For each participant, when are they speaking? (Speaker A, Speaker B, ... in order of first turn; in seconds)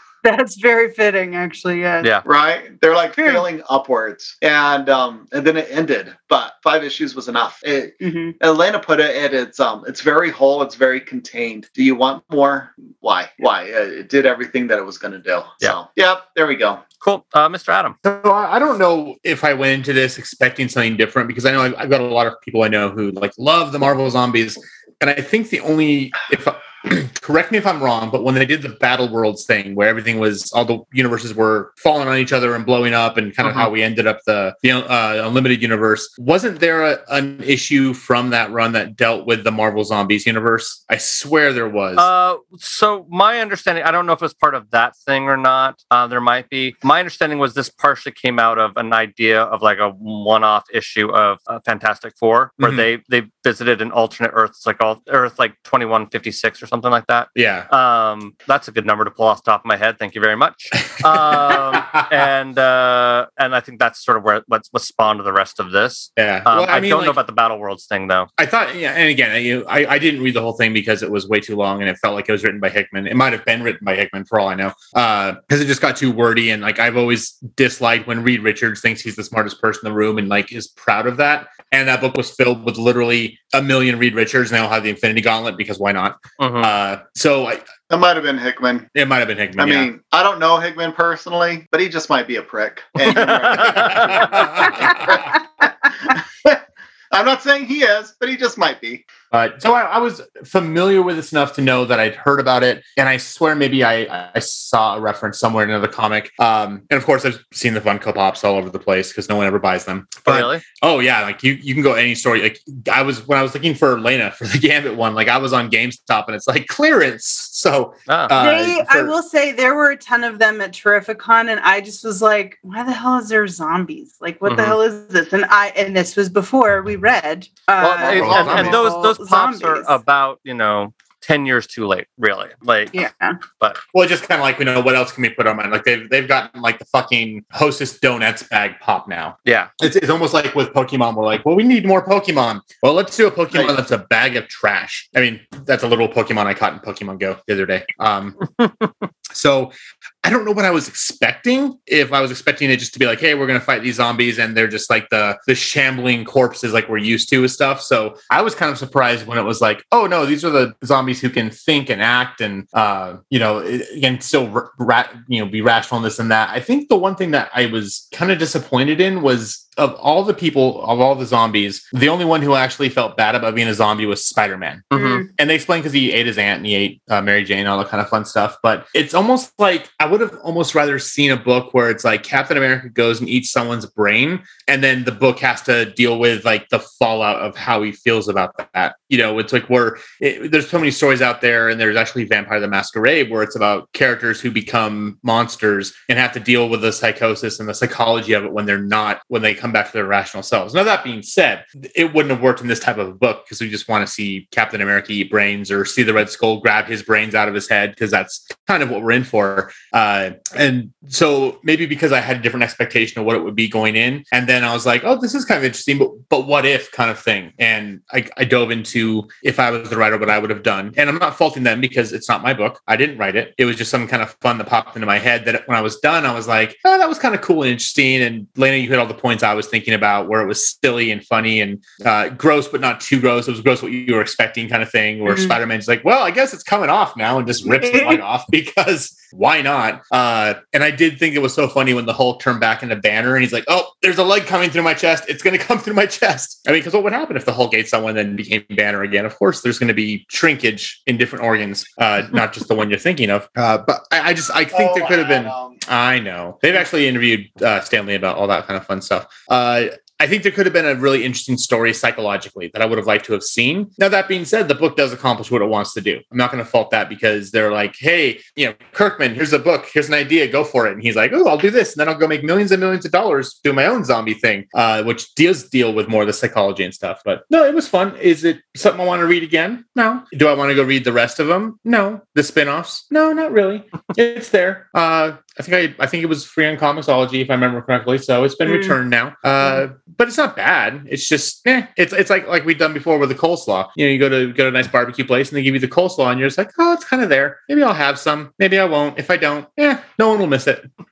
Speaker A: 0.2-2.1, 3.2-3.5, 8.0-8.3, 118.4-129.9, 132.9-133.4, 174.9-175.3, 235.3-235.6, 237.7-238.2, 288.7-289.0
Speaker B: 2.2-16.8, 87.9-88.9, 89.6-99.1, 254.7-255.8
Speaker C: 17.0-17.9, 42.0-68.3, 86.4-86.7, 93.1-94.2, 110.2-110.6, 118.1-118.3, 124.5-124.8, 127.8-133.8, 139.4-139.7, 148.6-148.9, 174.9-175.3
Speaker D: 18.0-42.1, 57.4-57.7, 61.0-62.1, 66.2-67.2, 68.4-87.7, 89.0-89.9, 93.7-95.3, 99.3-119.2, 128.0-128.9, 133.9-148.3, 149.3-300.8